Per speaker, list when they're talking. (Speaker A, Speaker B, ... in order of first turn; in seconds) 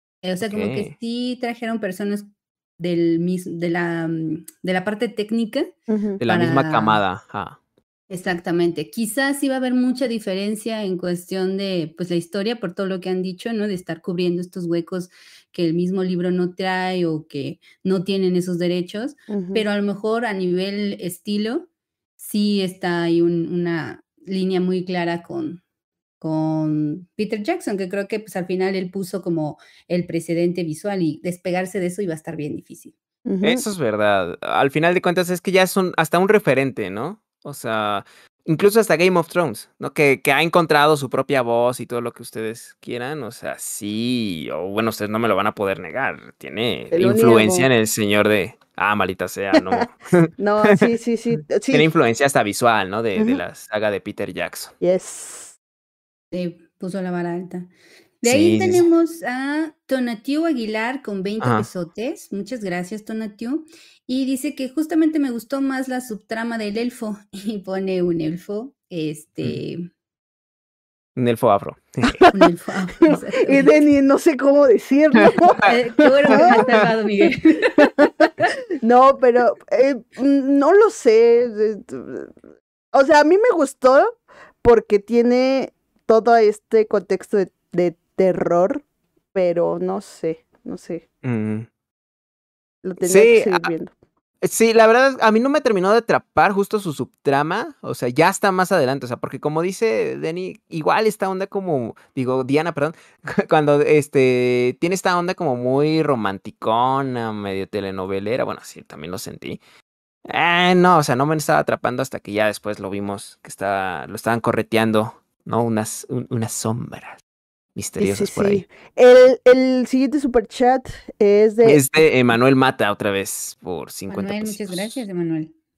Speaker A: 0.2-5.7, 6.2-7.0, 8.1-25.6, 26.2-32.9, 56.3-57.7, 58.2-69.9, 72.3-73.8, 75.6-78.4, 124.1-125.5
Speaker B: 0.4-0.9, 6.2-7.6, 33.4-50.9, 51.6-54.7, 58.2-58.9, 61.4-61.7, 71.2-72.3, 76.3-76.9, 91.2-91.7, 93.0-93.7, 94.4-109.6, 110.3-117.2, 117.8-118.6, 121.6-125.0
Speaker C: 5.9-6.2, 19.3-19.6, 33.2-33.6, 46.9-47.7, 49.6-49.8, 50.4-51.9, 53.2-53.4, 54.8-55.5, 73.0-76.6, 77.8-78.1, 78.8-82.3, 82.9-91.0, 92.8-93.9, 118.0-121.8